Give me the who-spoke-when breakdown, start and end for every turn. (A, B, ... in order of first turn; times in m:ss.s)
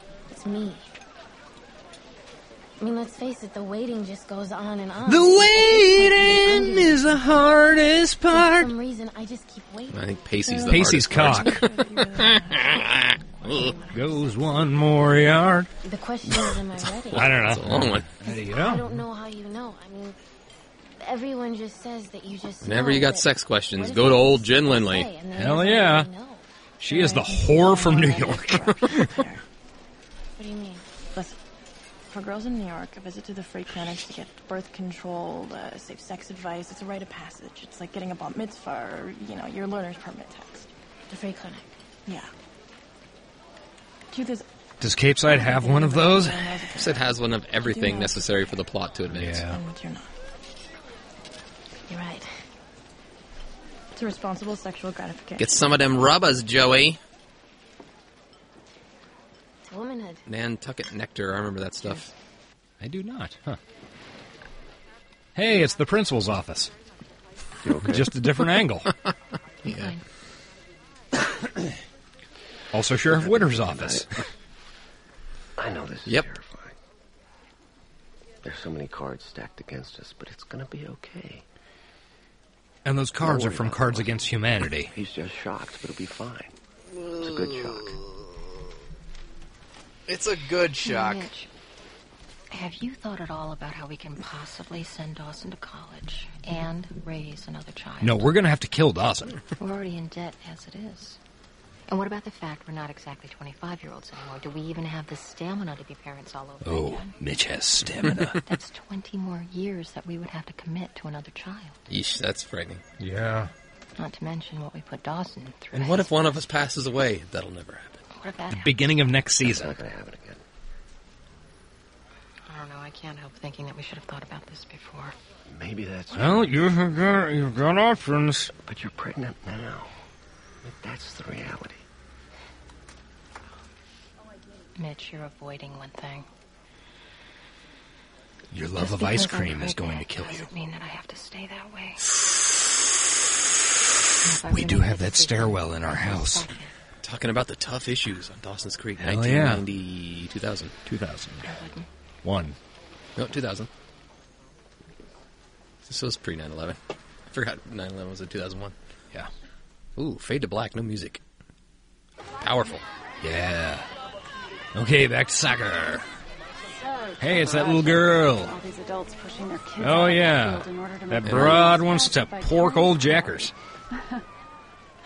0:00.3-0:00.9 A
0:02.8-0:07.2 A
0:05.1-0:08.7 B
0:08.3-0:10.0 A
0:09.9-0:13.8 C
0:10.4-0:12.7 D
0:10.7-0:11.7 B
0:13.5-0:14.3 A
0:13.5-0:14.3 D
0:13.9-0:15.7 B
0:15.8-0:17.5 A
0:16.8-0:18.1 C
0:17.1-0:18.9 B
0:18.2-0:20.2 A
0:21.0-0:26.4 A
0:22.6-0:25.1 C
0:25.3-0:26.1 B
0:26.8-0:29.1 B
0:26.8-0:29.4 D
0:30.4-0:30.8 A
0:32.1-0:40.7 D
0:41.1-0:41.6 A
0:41.2-0:42.3 D
0:44.1-0:44.4 D
0:44.8-0:46.6 B
0:45.2-0:48.2 D
0:46.8-0:49.5 C
0:49.1-0:49.6 B
0:49.5-0:50.1 D
0:51.9-0:52.3 A
0:53.9-0:55.6 D
0:55.4-0:57.0 C
0:59.7-1:00.2 A
1:00.3-1:02.1 C
1:02.8-1:03.6 B
1:05.4-1:06.7 B
1:07.6-1:08.1 E
1:07.8-1:08.9 B
1:09.6-1:09.9 C
1:09.7-1:10.0 F
1:12.7-1:14.1 B
1:13.1-1:14.1 E
1:15.6-1:16.8 E
1:18.4-1:21.4 E
1:22.8-1:24.9 B
1:23.2-1:24.3 E
1:24.9-1:26.6 E
1:26.9-1:28.3 C
1:27.2-1:28.0 E
1:30.1-1:31.3 C
1:30.8-1:31.5 F
1:32.5-1:38.4 F
1:38.0-1:39.4 B
1:39.6-1:41.2 F
1:41.9-1:47.2 F
1:46.6-1:48.4 B
1:48.4-1:51.8 F
1:51.9-1:52.8 C
1:53.0-1:53.5 B
1:54.0-1:56.3 F
1:55.7-1:58.0 C
1:58.1-1:58.8 F
1:58.6-1:59.8 B
1:59.4-2:00.4 E
2:02.5-2:05.2 F
2:05.5-2:06.9 E
2:06.1-2:08.5 B
2:08.6-2:09.9 E
2:10.6-2:11.8 E
2:14.8-2:16.3 F
2:18.5-2:20.5 B
2:18.8-2:22.0 F
2:24.2-2:26.7 F
2:24.5-2:26.5 B
2:27.0-2:30.8 C
2:29.0-2:29.6 B
2:30.9-2:31.6 B
2:31.4-2:31.9 F
2:32.2-2:32.6 B
2:33.2-2:33.7 C
2:35.8-2:36.8 C
2:37.3-2:38.8 C
2:40.0-2:41.2 C
2:42.4-2:42.8 C
2:43.2-2:43.9 B
2:44.7-2:46.0 B
2:47.2-2:53.5 G
2:47.2-2:48.6 B
2:49.8-2:53.5 B
2:51.3-2:51.6 C